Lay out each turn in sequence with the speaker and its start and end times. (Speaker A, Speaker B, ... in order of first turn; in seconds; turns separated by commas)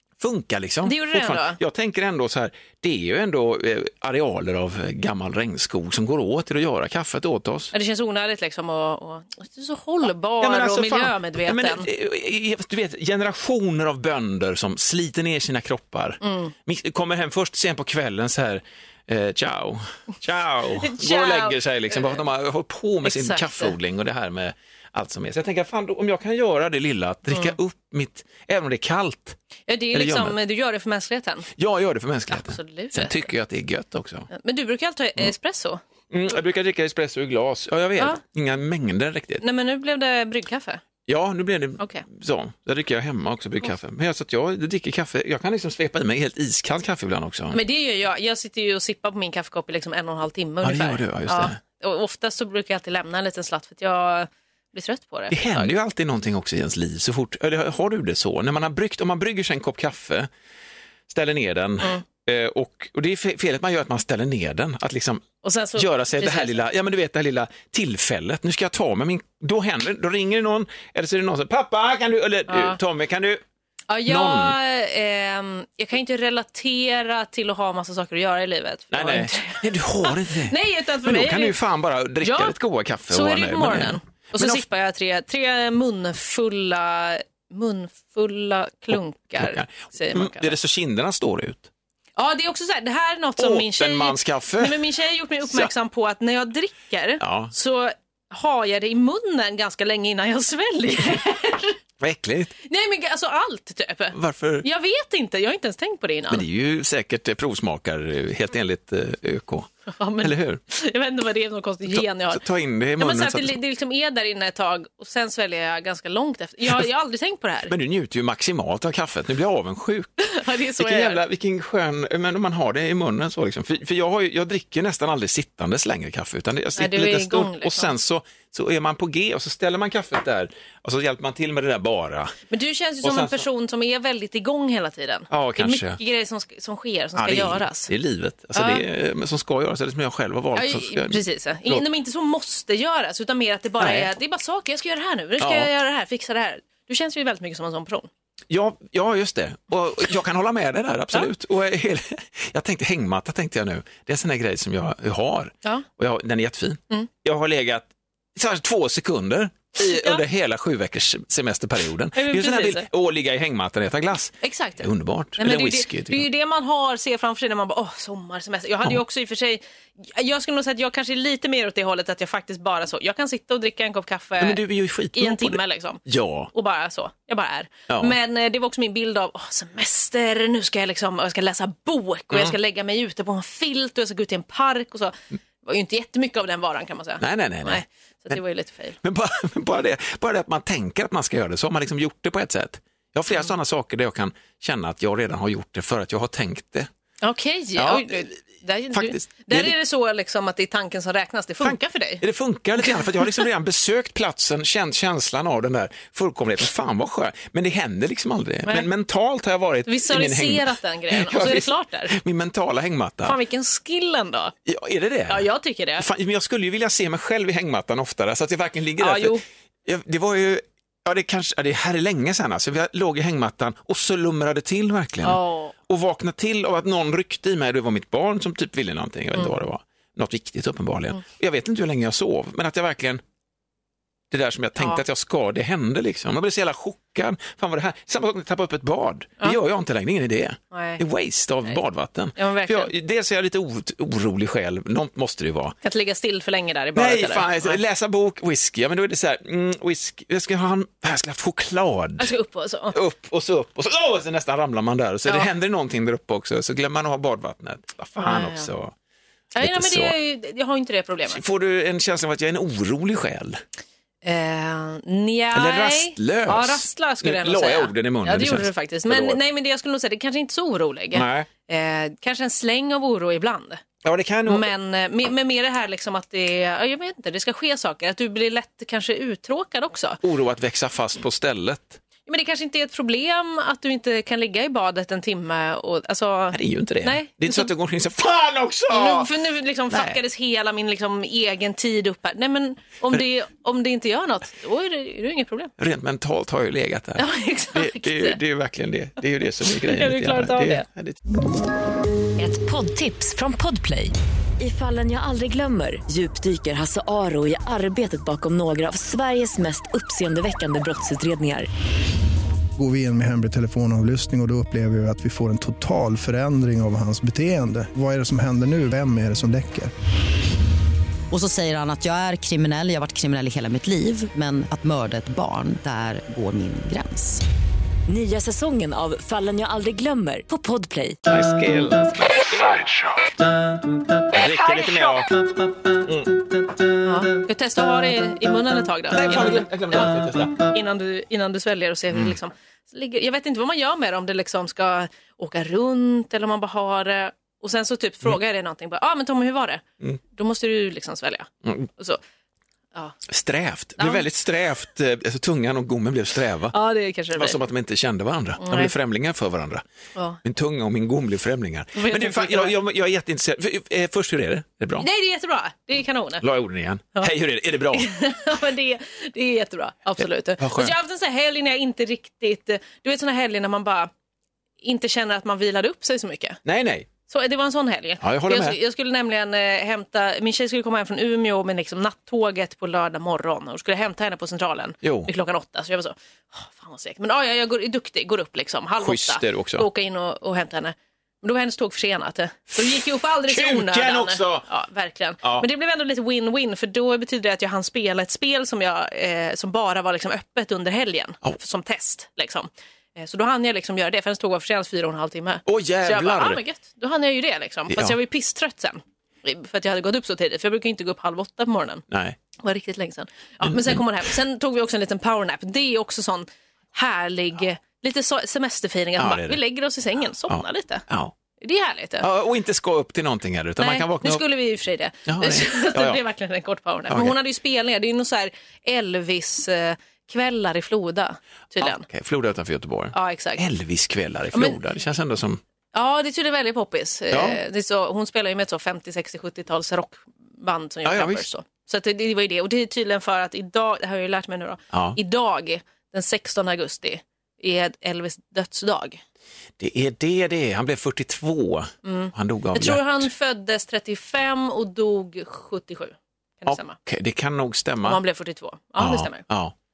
Speaker A: 0.2-7.7, Speaker B: 0.8-1.6, Speaker B: 7.7-11.9, Speaker A: 10.4-29.4, Speaker B: 16.2-16.5, Speaker B: 20.8-22.2, Speaker B: 23.1-23.7, Speaker B: 27.3-27.6, Speaker B: 29.7-31.5, Speaker A: 29.9-30.4, Speaker A: 31.6-34.3, Speaker B: 32.3-33.2, Speaker B: 34.3-35.8, Speaker A: 36.1-39.4, Speaker B: 39.4-40.8, Speaker A: 41.1-47.6, Speaker B: 47.5-55.7, Speaker A: 50.6-51.6, Speaker A: 55.3-60.3, Speaker A: 61.1-65.2, Speaker B: 65.4-66.5, Speaker A: 65.8-73.4, Speaker B: 72.5-72.8, Speaker B: 73.9-81.6, Speaker A: 74.1-74.6, Speaker A: 78.9-84.7, Speaker B: 82.2-82.5, Speaker B: 83.1-90.5, Speaker A: 89.3-91.7, Speaker B: 92.2-101.8, Speaker A: 93.4-94.8, Speaker A: 97.2-97.5, Speaker A: 102.0-102.5, Speaker B: 102.6-106.4, Speaker A: 104.1-104.7, Speaker A: 106.3-109.7, Speaker B: 109.9-112.4, Speaker A: 110.2-110.6, Speaker A: 111.9-113.6, Speaker B: 113.0-117.7, Speaker A: 117.7-120.2, Speaker B: 120.2-121.2, Speaker A: 120.8-132.3, Speaker B: 126.8-127.9, Speaker B: 132.5-137.9, Speaker A: 133.0-133.4, Speaker A: 135.3-136.0, Speaker A: 137.2-141.8, Speaker B: 138.6-138.8, Speaker B: 140.6-148.1, Speaker A: 143.8-144.1, Speaker A: 145.4-145.7, Speaker A: 148.5-166.3, Speaker B: 159.8-160.2, Speaker B: 162.2-162.8, Speaker B: 164.4-164.9, Speaker B: 165.4-174.6, Speaker A: 174.4-176.5, Speaker B: 175.1-176.0, Speaker B: 176.5-189.0, Speaker A: 177.9-178.2, Speaker A: 187.2-188.4, Speaker A: 189.0-196.9, Speaker B: 197.2-202.2, Speaker A: 197.8-198.3, Speaker A: 198.9-199.7, Speaker A: 201.6-213.4, Speaker B: 202.8-203.4, Speaker B: 209.9-212.1, Speaker B: 213.2-214.5, Speaker A: 214.7-215.5, Speaker B: 215.3-216.1, Speaker A: 216.0-233.2, Speaker B: 219.0-219.4, Speaker B: 225.2-225.7, Speaker A: 234.3-245.8, Speaker B: 234.8-235.0, Speaker B: 240.7-241.0, Speaker B: 242.3-242.9, Speaker B: 245.8-247.8, Speaker A: 246.9-252.3, Speaker B: 252.2-253.0, Speaker A: 252.9-258.9, Speaker B: 258.2-258.7, Speaker B: 259.5-261.4, Speaker A: 259.6-260.1, Speaker A: 261.3-263.6, Speaker B: 264.2-273.8, Speaker A: 265.5-269.4, Speaker A: 271.1-271.5, Speaker A: 274.0-274.7, Speaker B: 274.5-280.2, Speaker A: 280.2-282.0, Speaker B: 282.2-287.7, Speaker A: 286.5-289.3, Speaker B: 288.9-295.7, Speaker A: 289.9-290.2, Speaker A: 295.8-301.2, Speaker B: 297.2-298.4, Speaker B: 299.8-300.9, Speaker C: 302.4-311.7, Speaker D: 312.8-319.9, Speaker E: 321.3-327.4, Speaker C: 328.1-331.2, Speaker A: 331.3-333.4, Speaker A: 334.1-336.5, Speaker B: 337.0-352.2, Speaker A: 339.1-340.7, Speaker A: 353.3-356.8, Speaker B: 354.0-354.2, Speaker B: 356.7-357.6, Speaker A: 357.4-359.8, Speaker B: 358.6-358.9, Speaker A: 360.4-365.1, Speaker B: 361.9-362.7, Speaker B: 365.0-366.4, Speaker A: 366.4-368.1, Speaker B: 367.9-374.1, Speaker A: 370.6-370.9, Speaker B: 374.8-376.6, Speaker A: 376.6-377.1, Speaker B: 377.3-412.0, Speaker A: 378.2-378.8, Speaker A: 385.0-385.3, Speaker A: 389.0-389.9, Speaker A: 393.5-394.6, Speaker A: 405.6-406.6, Speaker A: 407.9-408.1, Speaker A: 412.1-412.4, Speaker B: 412.6-421.1, Speaker A: 413.6-414.0, Speaker A: 419.2-419.6, Speaker A: 420.5-421.3, Speaker B: 421.6-422.3, Speaker A: 422.2-424.4, Speaker B: 423.8-432.1, Speaker A: 425.3-426.2, Speaker A: 427.1-427.4, Speaker A: 431.8-435.6, Speaker B: 433.1-433.6, Speaker B: 434.5-434.8, Speaker B: 435.9-449.2, Speaker A: 437.3-437.6, Speaker A: 441.1-441.4, Speaker A: 444.9-445.2, Speaker A: 449.8-453.2, Speaker B: 452.0-457.0, Speaker A: 456.7-458.2, Speaker B: 458.0-459.4, Speaker A: 459.0-459.7